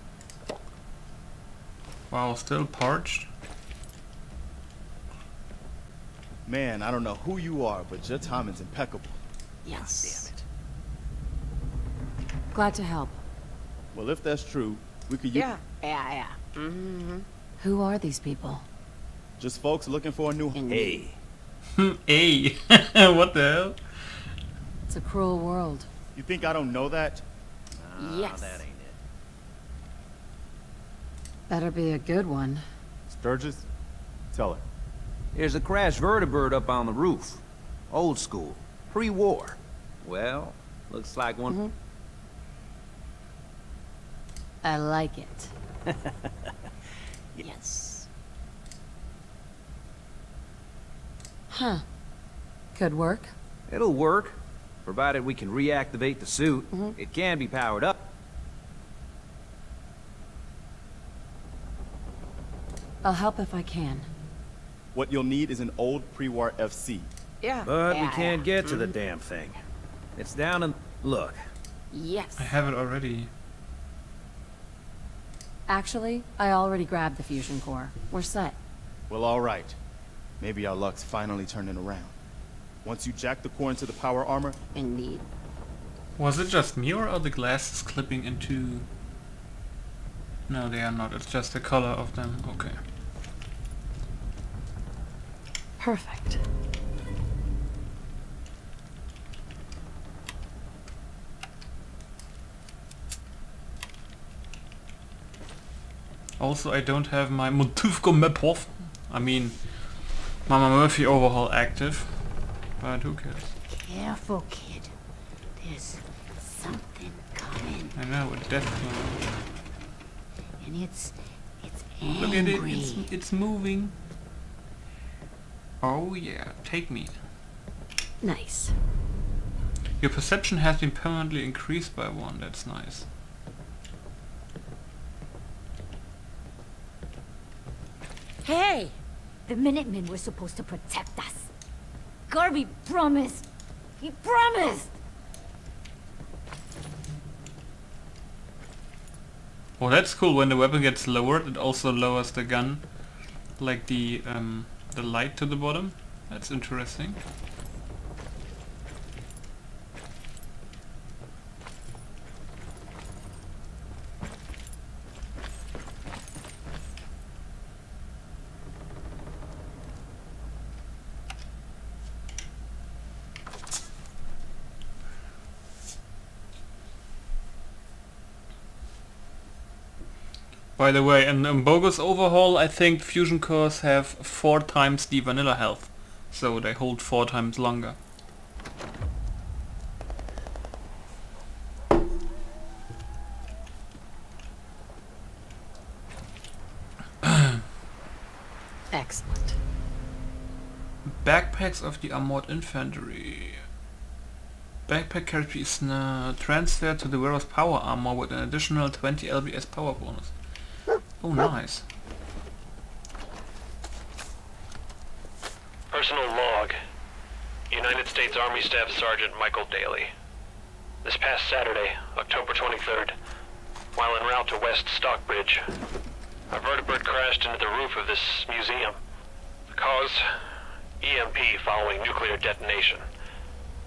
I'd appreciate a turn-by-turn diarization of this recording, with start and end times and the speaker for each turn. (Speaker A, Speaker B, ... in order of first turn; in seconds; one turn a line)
Speaker A: 2.1-3.3
Speaker B: 6.5-9.2
Speaker C: 9.7-10.3
Speaker D: 9.8-10.2
Speaker C: 12.5-13.2
Speaker B: 13.9-15.5
Speaker C: 15.3-18.6
Speaker B: 19.4-20.6
Speaker C: 20.5-21.0
Speaker D: 20.7-21.2
Speaker A: 21.8-24.2
Speaker C: 24.9-25.9
Speaker B: 26.1-27.2
Speaker D: 27.8-29.0
Speaker C: 28.0-28.6
Speaker C: 31.5-32.6
Speaker B: 33.1-33.7
Speaker B: 34.3-34.6
Speaker D: 35.3-41.6
Speaker C: 41.5-41.7
Speaker C: 44.6-45.5
Speaker C: 47.4-48.1
Speaker C: 51.5-51.9
Speaker C: 52.8-53.3
Speaker D: 53.7-58.1
Speaker C: 56.7-57.0
Speaker C: 63.0-64.1
Speaker B: 64.9-67.1
Speaker C: 67.4-69.0
Speaker D: 67.7-69.6
Speaker D: 70.2-71.4
Speaker C: 71.9-72.5
Speaker A: 72.4-73.3
Speaker C: 75.7-78.6
Speaker B: 79.1-79.8
Speaker B: 80.4-82.1
Speaker B: 82.8-84.6
Speaker C: 84.8-85.3
Speaker A: 86.2-88.9
Speaker A: 90.5-92.8
Speaker C: 95.8-96.4
Speaker A: 106.4-113.5
Speaker E: 113.7-114.9
Speaker E: 115.6-118.0
Speaker A: 118.0-119.3
Speaker E: 120.6-123.1
Speaker A: 122.2-123.9
Speaker A: 125.8-127.2
Speaker C: 128.2-128.8
Speaker A: 130.0-133.1
Speaker E: 138.4-138.9
Speaker E: 139.5-141.5
Speaker E: 142.3-143.5
Speaker E: 144.0-144.9
Speaker A: 149.8-152.9
Speaker A: 153.6-157.2
Speaker A: 180.8-188.0
Speaker C: 198.9-199.6
Speaker A: 201.0-203.6
Speaker A: 204.9-210.4
Speaker A: 211.1-211.8
Speaker F: 215.9-216.8
Speaker F: 217.7-220.1
Speaker F: 221.0-223.2
Speaker F: 223.9-225.7
Speaker F: 226.5-229.0
Speaker F: 229.7-230.3
Speaker F: 231.0-233.1